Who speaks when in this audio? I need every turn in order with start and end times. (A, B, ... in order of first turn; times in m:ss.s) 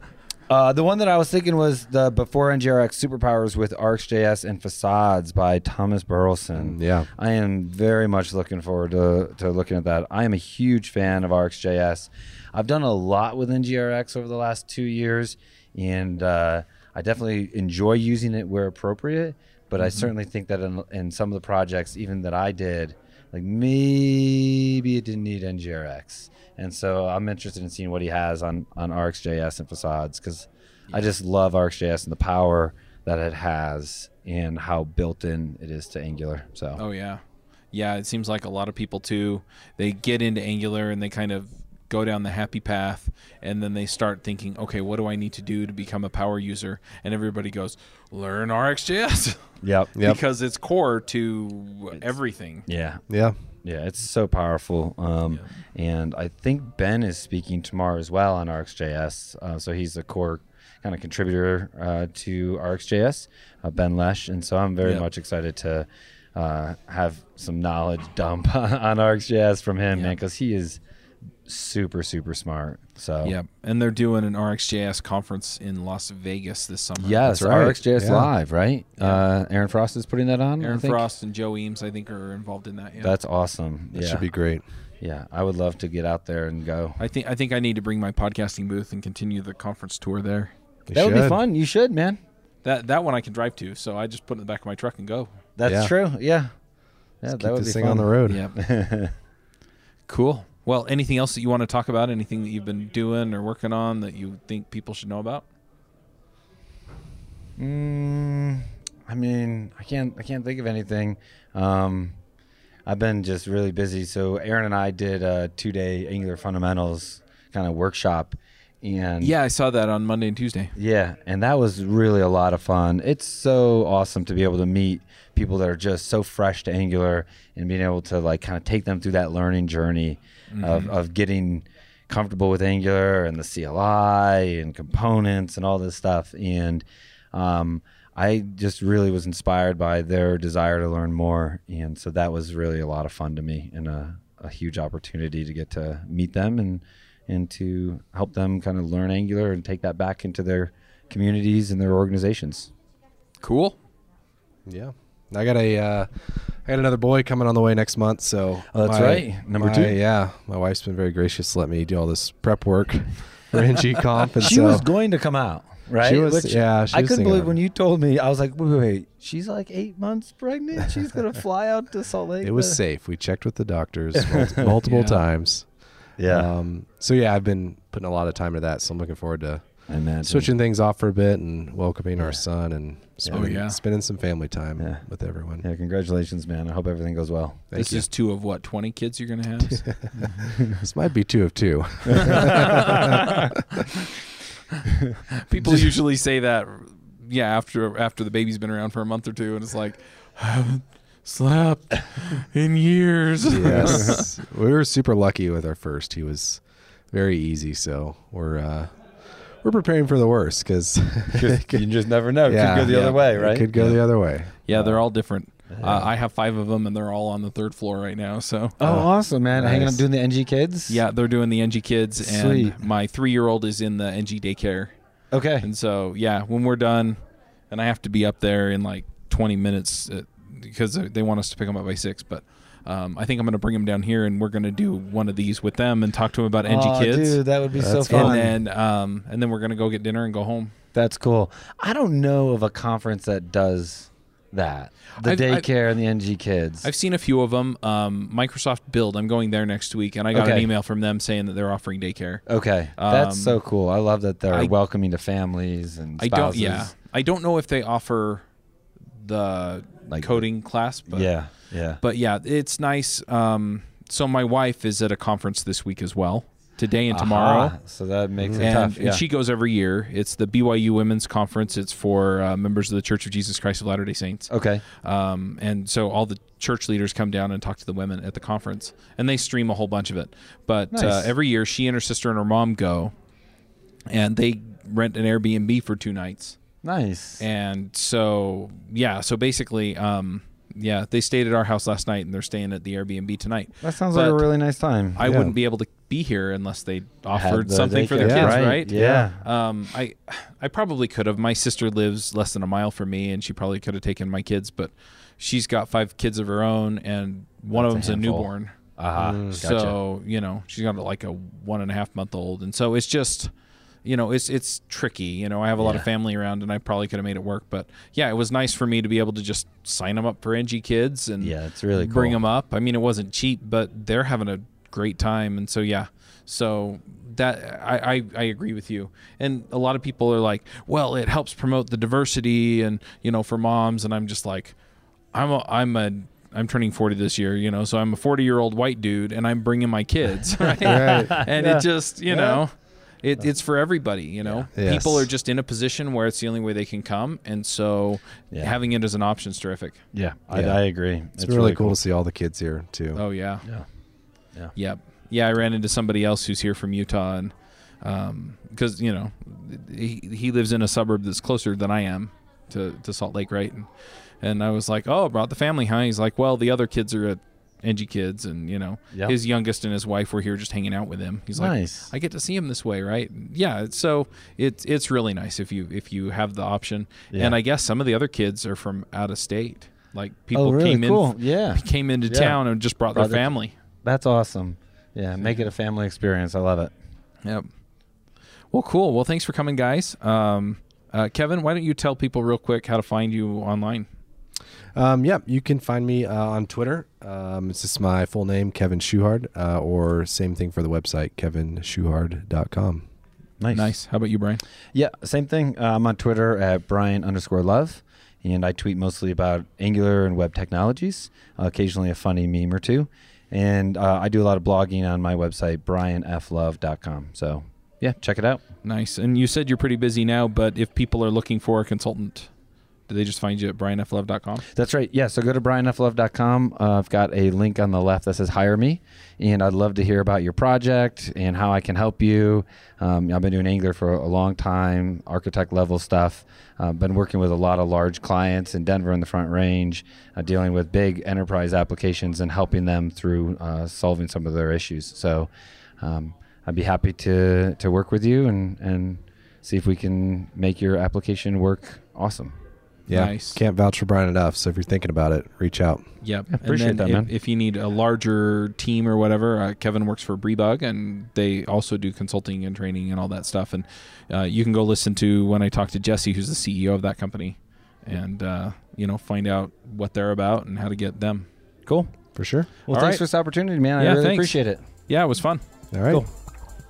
0:00.5-0:36.8 A
0:06.6-0:07.1 B
0:19.8-0:20.1 C
0:36.8-0:52.6 C
0:49.6-0:49.9 A
0:49.9-0:50.2 B
0:52.6-1:10.8 A
0:53.1-0:53.4 B
1:11.4-1:13.3 A
1:13.2-1:17.6 C
1:17.0-1:21.0 A
1:17.4-1:18.3 B
1:20.6-1:23.1 C
1:23.0-1:24.3 A
1:23.9-1:24.6 B
1:25.0-1:27.0 A
1:27.0-1:30.5 C
1:30.9-1:31.4 B
1:30.9-1:32.2 A
1:32.6-1:35.3 C
1:35.6-1:36.5 A
1:35.6-1:35.9 B
1:37.2-1:39.1 A
1:37.2-1:38.4 B
1:38.2-1:38.5 C
1:40.1-1:45.4 C
1:47.6-1:52.2 A
1:52.8-1:59.3 A
1:59.2-2:00.7 C
2:00.8-2:32.7 A
2:10.5-2:10.9 C
2:33.4-2:33.8 C
2:34.6-2:44.9 B
2:38.7-2:39.9 A
2:44.4-2:52.8 A
2:46.0-2:47.6 B
2:52.4-3:05.6 B
2:54.2-2:54.7 A
2:54.8-2:55.2 C
2:56.2-2:56.5 A
2:59.9-3:00.5 A
3:02.2-3:02.4 A
3:03.2-3:03.5 A
3:03.3-3:03.8 C
3:04.8-3:05.0 A
3:05.6-3:07.6 A
3:07.7-3:08.0 B
3:07.7-3:10.1 C
3:09.7-3:13.6 B
3:10.2-3:10.6 A
3:12.9-3:13.4 A
3:15.4-3:24.3 C
3:23.5-3:31.8 B
3:31.3-3:34.0 A
3:32.4-3:34.7 B
3:33.8-3:34.0 C
3:34.6-3:38.8 C
3:34.7-3:35.0 A
3:35.7-3:36.1 A
3:38.8-3:41.0 A
3:38.8-3:40.0 B
3:40.9-3:44.9 C
3:42.2-3:42.8 A
3:45.3-3:45.7 A
3:45.6-3:47.2 C
3:47.7-3:57.4 C
3:56.6-3:58.5 A
3:57.8-3:58.5 B
3:58.1-4:00.7 C
4:00.9-4:06.9 A
4:05.2-4:05.7 C
4:06.8-4:13.6 C
4:10.3-4:10.7 A
4:12.5-4:16.9 A
4:16.2-4:18.5 C
4:19.2-4:27.8 C
4:20.1-4:20.5 A
4:21.1-4:22.0 A
4:27.1-4:29.2 A
4:28.4-4:28.7 B
4:28.6-4:43.1 C
4:34.5-4:34.8 A
4:40.9-4:41.3 A
4:44.1-4:46.6 C
4:46.8-4:47.4 A
4:47.4-4:54.4 C
4:53.8-4:55.2 A
4:55.1-5:08.7 C
4:55.2-4:55.5 B
4:57.3-4:59.4 A
4:58.2-4:59.2 B
5:07.7-5:10.0 A
5:09.2-5:09.6 B
5:09.6-5:13.5 C
5:14.0-5:34.8 C
5:15.8-5:16.1 A
5:21.4-5:22.4 A
5:35.3-5:50.0 C
5:40.8-5:41.4 B
5:40.8-5:42.6 A
5:44.4-5:44.7 A
5:44.7-5:45.3 B
5:50.1-5:52.0 A
5:50.5-5:53.2 B
5:53.1-5:53.6 C
5:54.7-6:23.7 C
6:11.5-6:12.1 A
6:17.3-6:17.6 A
6:20.5-6:22.6 A
6:23.1-6:26.9 A
6:25.4-6:25.7 C
6:27.4-6:27.7 C
6:28.7-6:34.1 C
6:34.9-6:43.0 B
6:43.6-6:44.0 A
6:43.7-6:44.6 C
6:44.9-6:58.6 A
6:58.8-7:04.6 C
7:04.7-7:25.5 A
7:26.0-7:32.5 A
7:33.1-7:33.6 C
7:33.1-7:36.0 B
7:36.2-7:51.5 C
7:36.5-7:37.3 A
7:51.8-7:54.8 A
7:52.3-7:52.7 B
7:52.9-7:53.4 C
7:54.0-7:55.6 C
7:55.9-7:56.2 B